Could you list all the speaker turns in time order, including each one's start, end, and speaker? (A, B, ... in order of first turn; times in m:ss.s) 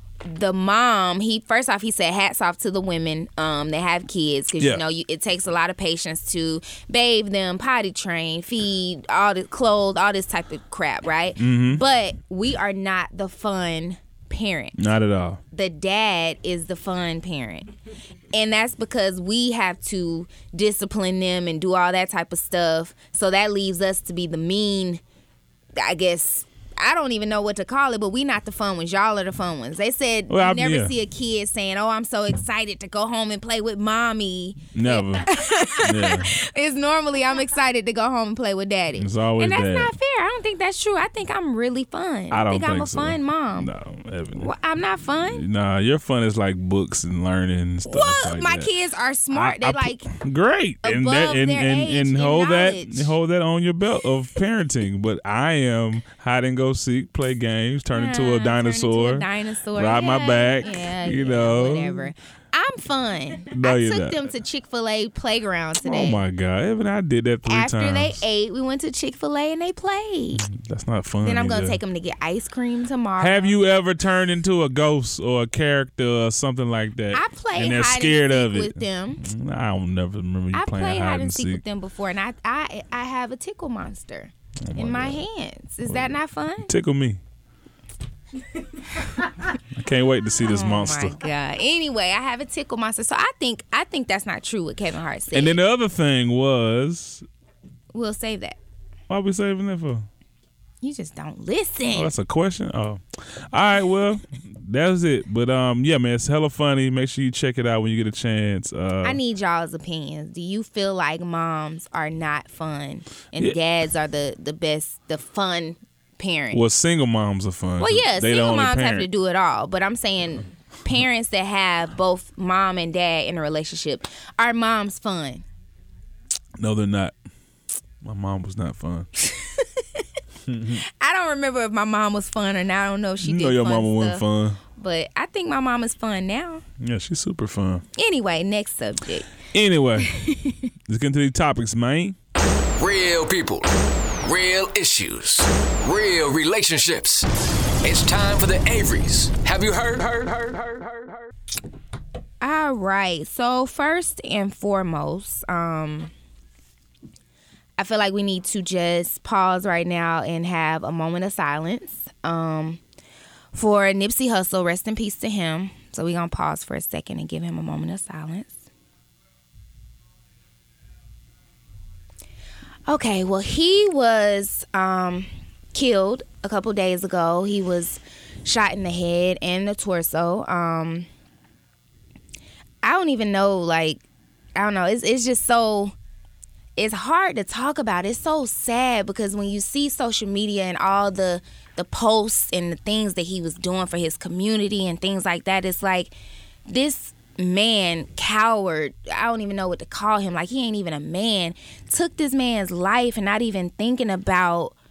0:00.2-0:14.8 A
0:11.4-0:11.8 B
0:14.8-0:15.4 B
0:15.5-0:17.7 A
0:18.3-0:25.0 A
0:25.8-0:43.7 A
0:30.3-0:30.9 B
0:34.7-0:36.4 B
0:39.0-0:39.9 B
0:42.3-0:44.5 B
0:44.4-0:45.4 A
0:45.3-0:48.7 B
0:47.9-0:50.1 A
0:49.3-1:02.1 B
0:50.8-0:53.1 A
0:57.9-1:06.2 A
1:03.5-1:04.3 B
1:05.8-1:08.2 B
1:07.5-1:10.5 A
1:10.3-1:11.8 B
1:11.2-1:13.5 A
1:13.2-1:21.6 B
1:17.1-1:19.2 A
1:20.5-1:26.7 A
1:24.6-1:25.2 B
1:26.6-1:27.2 B
1:29.7-1:31.2 B
1:30.4-1:35.6 A
1:35.3-1:37.3 B
1:37.9-1:38.6 A
1:39.1-1:40.1 B
1:40.8-1:42.1 A
1:41.9-1:49.2 B
1:49.0-1:56.6 A
1:56.5-1:59.1 B
1:57.8-2:05.4 A
2:06.6-2:07.2 B
2:08.0-2:09.1 B
2:09.2-2:10.0 A
2:10.5-2:10.8 B
2:10.8-2:14.2 A
2:13.2-2:14.6 B
2:14.8-2:16.6 A
2:16.8-2:17.8 B
2:18.0-2:19.4 A
2:19.5-2:20.1 B
2:20.0-2:20.7 A
2:20.9-2:22.2 B
2:22.8-2:27.3 C
2:27.8-2:31.2 C
2:32.4-2:36.1 A
2:37.8-2:42.8 A
2:43.5-2:48.6 A
2:52.9-3:01.1 A
3:02.8-3:04.0 A
3:04.6-3:05.9 A
3:06.8-3:16.1 A
3:16.7-3:24.8 A